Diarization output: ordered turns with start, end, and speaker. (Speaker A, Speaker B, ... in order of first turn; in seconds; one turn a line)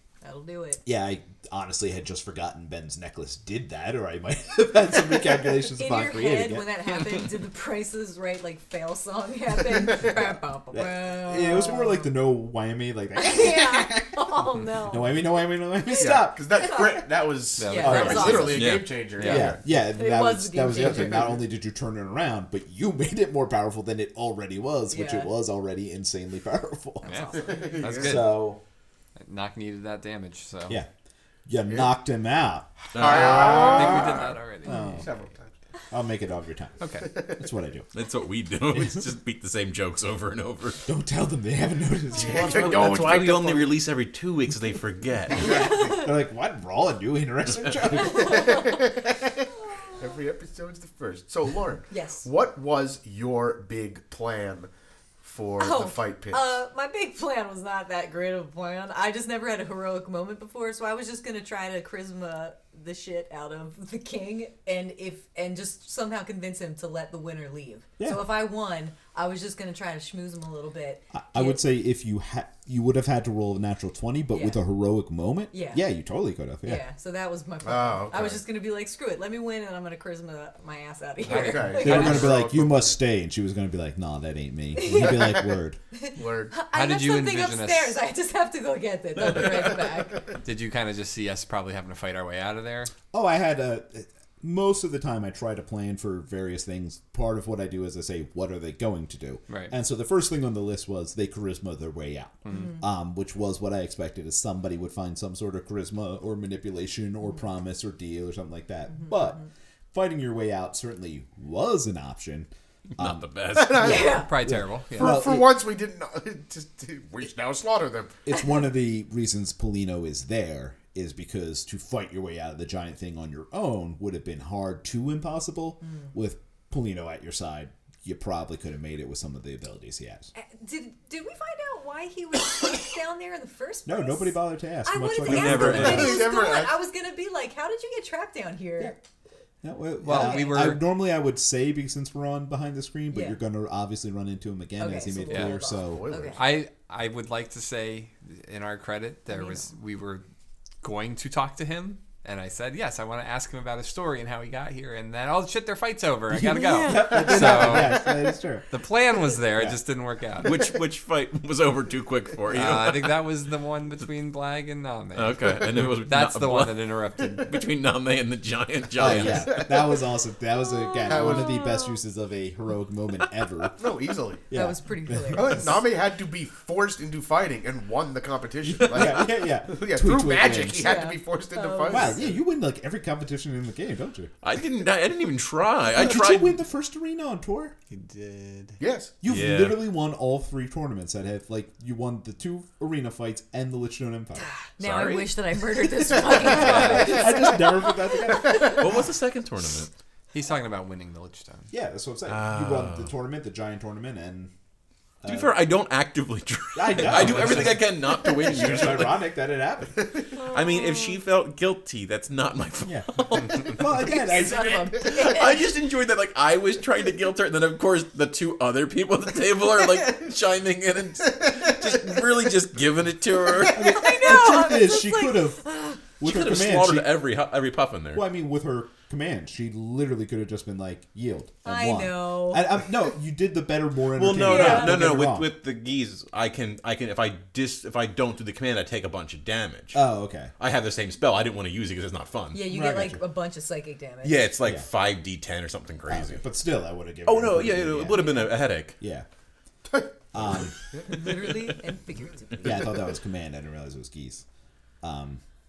Speaker A: 0.2-0.8
Speaker B: 0.8-6.7
Speaker A: 5.2-12.1
Speaker C: 9.7-10.2
Speaker B: 10.7-17.0
Speaker A: 13.2-15.2
Speaker A: 15.9-17.0
Speaker C: 16.2-19.6
Speaker D: 17.6-18.6
Speaker A: 17.6-18.9
Speaker B: 17.8-18.6
Speaker E: 18.3-19.0
Speaker D: 19.1-19.6
Speaker B: 19.2-27.4
Speaker A: 19.7-21.3
Speaker C: 20.7-21.4
Speaker A: 24.9-25.3
Speaker D: 27.0-28.5
Speaker A: 27.1-27.7
Speaker C: 27.4-28.2
Speaker B: 27.9-28.6
Speaker D: 29.2-30.8
Speaker B: 31.5-35.1
Speaker C: 32.9-35.5
Speaker E: 32.9-33.7
Speaker D: 33.3-34.8
Speaker A: 34.7-35.0
Speaker B: 35.9-37.9
Speaker D: 36.8-37.1
Speaker C: 37.0-37.5
Speaker E: 37.9-40.8
Speaker B: 40.8-43.2
Speaker C: 42.1-43.7
Speaker A: 42.2-42.8
Speaker E: 42.4-45.5
Speaker C: 45.3-46.0
Speaker A: 45.4-46.1
Speaker B: 45.6-48.6
Speaker A: 48.0-48.8
Speaker C: 48.0-54.7
Speaker A: 49.7-50.0
Speaker A: 51.9-52.3
Speaker C: 55.2-56.6
Speaker A: 55.6-71.6
Speaker B: 68.0-68.3
Speaker B: 71.1-76.8
Speaker A: 74.3-74.6
Speaker A: 75.5-75.8
Speaker A: 76.6-82.4
Speaker C: 77.6-78.4
Speaker C: 81.2-82.9
Speaker D: 81.2-82.3
Speaker B: 81.8-85.8
Speaker A: 84.7-90.3
Speaker C: 84.9-85.4
Speaker C: 86.1-86.5
Speaker D: 86.7-88.0
Speaker E: 89.4-89.7
Speaker D: 90.4-92.9
Speaker B: 93.1-115.5
Speaker D: 99.5-99.8
Speaker D: 102.5-102.8
Speaker A: 102.5-102.8
Speaker A: 109.0-109.5
Speaker E: 112.9-114.0
Speaker C: 113.5-114.3
Speaker A: 113.8-114.3
Speaker D: 113.9-115.2
Speaker C: 115.0-118.2
Speaker B: 118.2-130.3
Speaker A: 130.3-139.0
Speaker B: 133.8-136.3
Speaker E: 135.2-136.3
Speaker C: 135.6-136.8
Speaker B: 139.6-146.2
Speaker D: 140.0-140.8
Speaker A: 140.1-140.7
Speaker A: 143.1-143.4
Speaker A: 144.8-146.4
Speaker D: 145.3-145.6
Speaker C: 145.8-146.5
Speaker D: 146.3-150.2
Speaker D: 150.8-158.1
Speaker B: 156.3-158.7
Speaker A: 156.6-157.3
Speaker D: 158.7-160.6
Speaker E: 160.4-163.3
Speaker D: 162.5-167.5
Speaker E: 165.1-166.9
Speaker E: 167.4-169.6
Speaker B: 168.9-173.8
Speaker A: 170.7-172.0
Speaker C: 171.1-171.6
Speaker C: 173.7-174.5
Speaker B: 174.5-175.8
Speaker A: 174.5-175.8
Speaker C: 175.3-182.4
Speaker B: 178.7-181.0
Speaker A: 180.8-182.2
Speaker B: 181.9-184.3
Speaker E: 184.4-186.6
Speaker B: 185.9-187.7
Speaker D: 187.9-188.8
Speaker C: 188.8-189.1
Speaker B: 189.2-194.5
Speaker E: 189.3-189.8
Speaker A: 194.4-197.6
Speaker E: 194.8-195.6
Speaker C: 196.1-197.7
Speaker B: 196.3-198.8
Speaker E: 196.4-197.1
Speaker C: 198.3-198.8
Speaker E: 198.5-199.9
Speaker D: 200.3-201.7
Speaker B: 201.7-204.5
Speaker E: 202.3-203.1
Speaker B: 205.2-205.6
Speaker E: 205.2-209.2
Speaker B: 206.7-210.0
Speaker C: 210.0-210.3
Speaker A: 210.3-211.2
Speaker E: 210.4-213.9
Speaker B: 212.8-215.1
Speaker A: 213.9-215.7
Speaker E: 215.2-224.0
Speaker B: 223.7-227.2
Speaker A: 223.8-226.0
Speaker E: 226.2-228.2
Speaker B: 228.1-235.5
Speaker A: 231.6-232.6
Speaker E: 234.2-240.0
Speaker A: 234.3-235.0
Speaker B: 239.9-240.5
Speaker E: 240.6-242.6
Speaker A: 242.5-244.4
Speaker B: 242.7-243.2
Speaker E: 244.2-246.4
Speaker B: 244.6-244.9
Speaker B: 246.1-249.2
Speaker E: 247.2-249.0
Speaker C: 249.9-250.1
Speaker B: 250.3-250.8
Speaker C: 250.9-251.2
Speaker A: 251.1-252.9
Speaker B: 252.6-254.4
Speaker B: 255.0-255.4